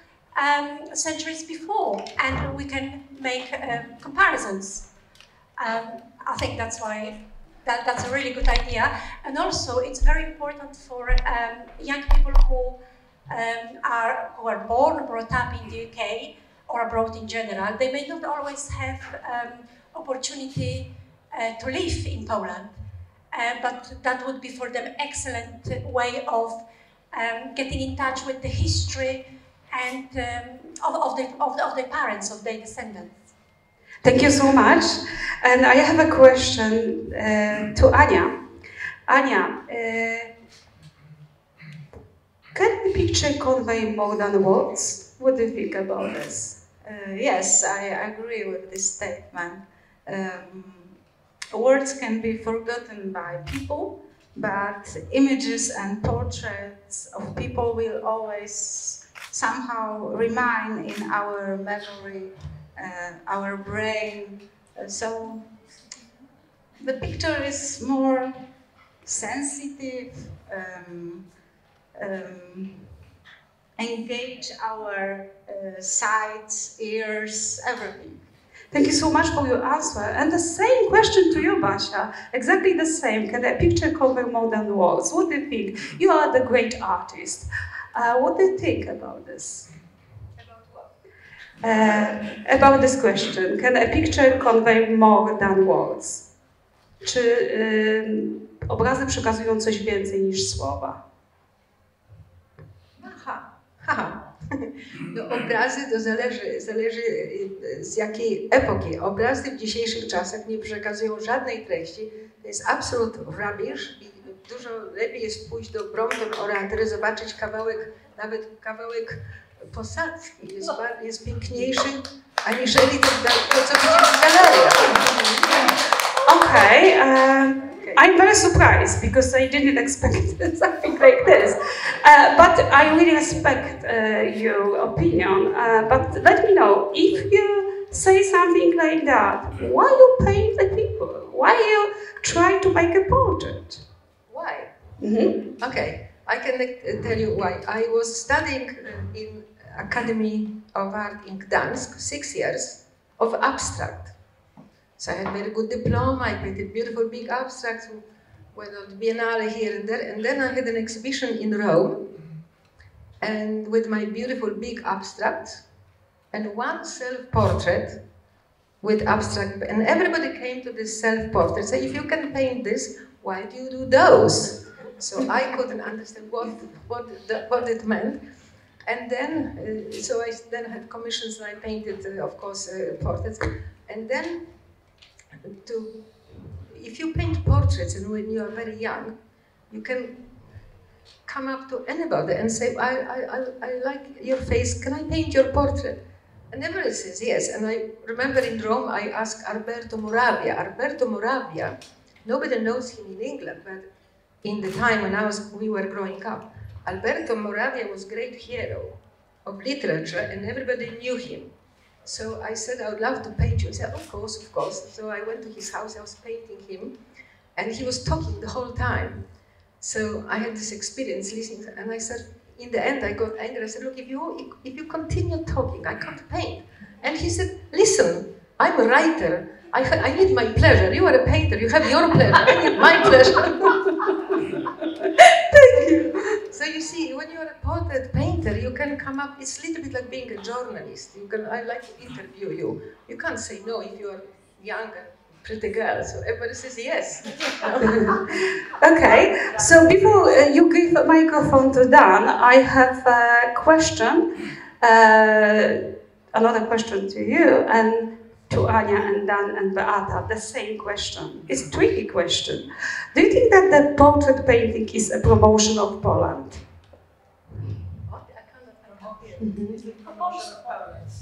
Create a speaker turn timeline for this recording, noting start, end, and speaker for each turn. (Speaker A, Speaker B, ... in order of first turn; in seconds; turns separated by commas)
Speaker A: 0.3-4.9, Speaker A: 5.6-22.7, Speaker A: 23.3-33.2, Speaker B: 34.0-38.3, Speaker B: 39.1-40.3, Speaker B: 42.5-46.6, Speaker C: 46.8-51.0, Speaker C: 51.5-65.5, Speaker C: 66.8-68.4, Speaker C: 69.0-71.2, Speaker C: 71.9-72.9, Speaker C: 73.8-78.2, Speaker B: 78.7-89.7, Speaker B: 91.6-96.2, Speaker B: 97.0-101.0, Speaker D: 103.0-125.7, Speaker B: 126.2-143.8, Speaker D: 144.3-144.7, Speaker B: 145.0-145.4, Speaker D: 145.6-154.1, Speaker D: 155.0-162.1, Speaker D: 163.2-165.6, Speaker D: 166.3-168.0, Speaker D: 168.8-178.2, Speaker D: 178.8-184.5, Speaker D: 185.4-189.1, Speaker D: 189.7-190.2, Speaker D: 191.2-203.8, Speaker D: 204.4-211.5, Speaker D: 212.0-216.9, Speaker D: 217.5-219.2, Speaker D: 219.8-233.9, Speaker B: 235.5-236.2, Speaker D: 235.7-248.2, Speaker B: 247.8-266.6, Speaker D: 268.1-269.4, Speaker B: 269.4-269.8